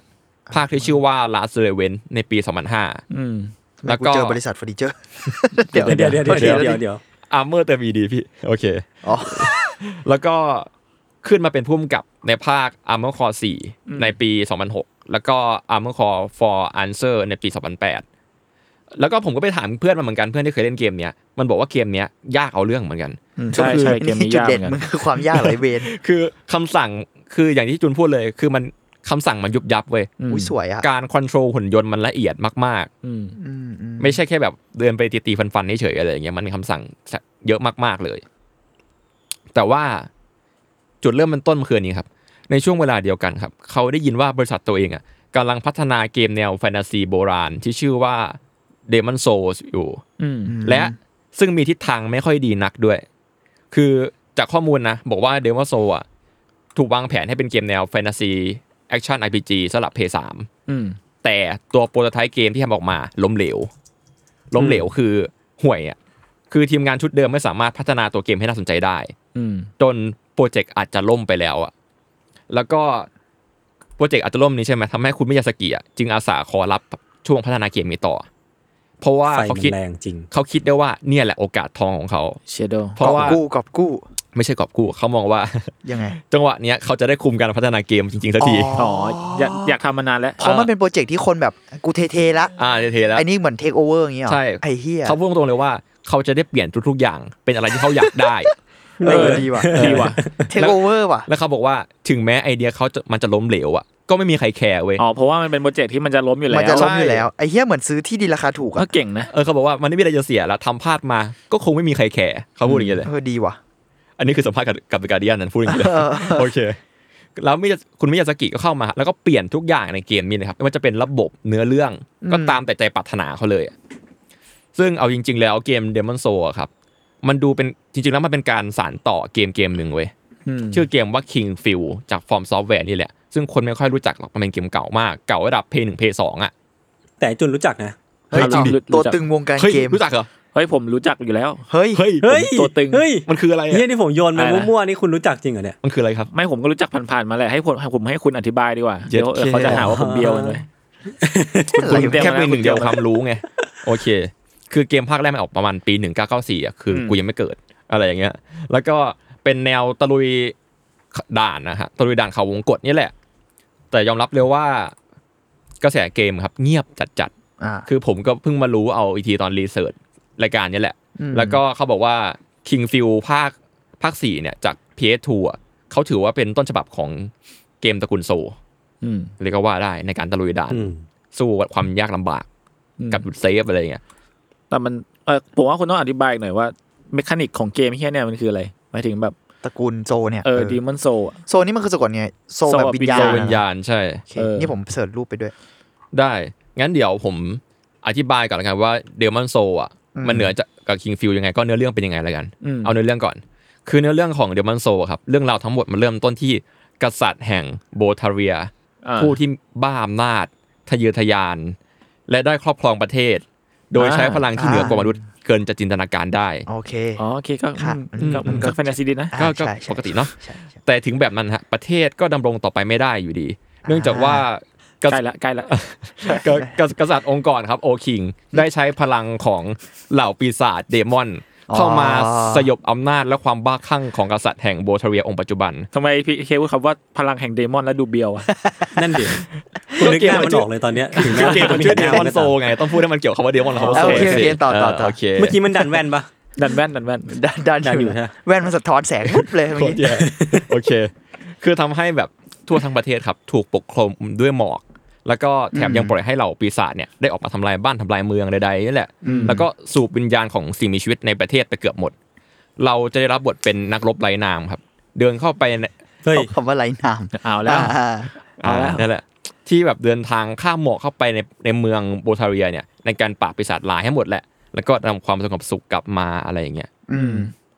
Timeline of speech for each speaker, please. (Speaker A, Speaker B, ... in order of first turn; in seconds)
Speaker A: 0.5-0.9, 3.8-6.8, 9.0-9.5, 23.5-25.9, 30.3-30.9, 33.4-34.2, 50.5-51.0, 83.0-84.0, 85.8-86.2, 88.4-89.7, 90.4-92.5, 93.1-95.2, 99.0-99.8, 100.5-101.3, 106.5-108.9, 113.0-113.6, 115.7-116.5, 122.2-122.6, 138.3-140.0, 141.7-142.0, 149.4-149.8, 151.7-152.3, 167.6-167.9, 171.2-171.6, 189.6-190.8, 191.5-193.6, 194.3-195.5, 200.1-200.5, 214.5-215.2, 216.7-217.2, 217.8-220.8, 223.8-224.4, 226.3-226.7, 231.7-232.7, 238.5-238.9, 243.9-245.2, 247.3-250.0, 255.7-256.1, 259.2-259.6, 266.3-269.0, 277.1-277.5
Speaker B: 0.5-3.0, 3.8-4.4, 6.3-6.7, 7.3-10.7, 11.2-18.0, 18.9-23.9, 25.3-30.1, 30.8-32.9, 34.0-38.2, 39.5-40.1, 41.0-50.0, 50.6-53.0, 53.7-56.0, 56.7-60.5, 61.2-63.7, 64.5-66.0, 66.5-69.1, 69.8-71.7, 72.5-73.1, 74.0-78.2, 79.0-79.8, 80.3-82.4, 83.0-83.4, 84.3-88.8, 92.6-93.2, 94.2-98.5, 99.7-105.0, 106.7-107.2, 109.3-113.1, 114.2-116.8, 117.3-123.7, 124.7-126.7, 127.2-130.1, 130.7-136.5, 138.3-138.7, 139.6-140.3, 141.9-142.3, 143.2-143.8, 145.8-146.3, 149.1-149.8, 151.9-160.5, 161.1-163.1, 163.9-164.9, 165.8-167.3, 167.8-178.6, 179.4-182.4, 183.1-184.0, 193.1-194.2, 196.1-211.8, 212.3-216.7, 218.2-218.7, 219.4-235.9, 240.0-245.6, 249.3-262.1, 262.8-265.9, 268.6-276.9
Speaker C: 3.1-3.5, 13.9-14.1, 23.4-24.8, 30.2-30.5, 33.0-33.4, 50.2-50.6, 60.7-61.0, 64.6-64.8, 69.3-69.7, 82.5-83.3, 88.8-90.6, 99.0-100.2, 105.0-106.9, 108.8-109.3, 112.7-113.0, 130.4-130.8, 138.3-139.2, 140.5-141.7, 142.3-143.0, 144.3-144.7, 146.3-150.7, 151.8-153.0, 156.9-157.2, 179.0-179.3, 183.0-183.2, 184.7-189.3, 190.4-191.4, 192.7-193.5, 194.3-194.7, 202.6-202.9, 209.0-209.4, 214.0-214.4, 217.2-219.3, 225.1-225.7, 235.9-238.5, 241.2-241.9, 243.8-244.5, 246.6-247.4, 259.2-259.6, 267.4-267.9, 277.1-277.5
Speaker D: 5.7-7.0, 79.3-80.3, 99.0-100.4, 137.2-137.9, 142.2-145.8, 149.7-150.6, 151.2-152.1, 180.7-181.0, 238.9-242.7, 243.8-244.5, 245.4-246.3, 247.8-248.3, 250.1-250.7, 266.2-266.5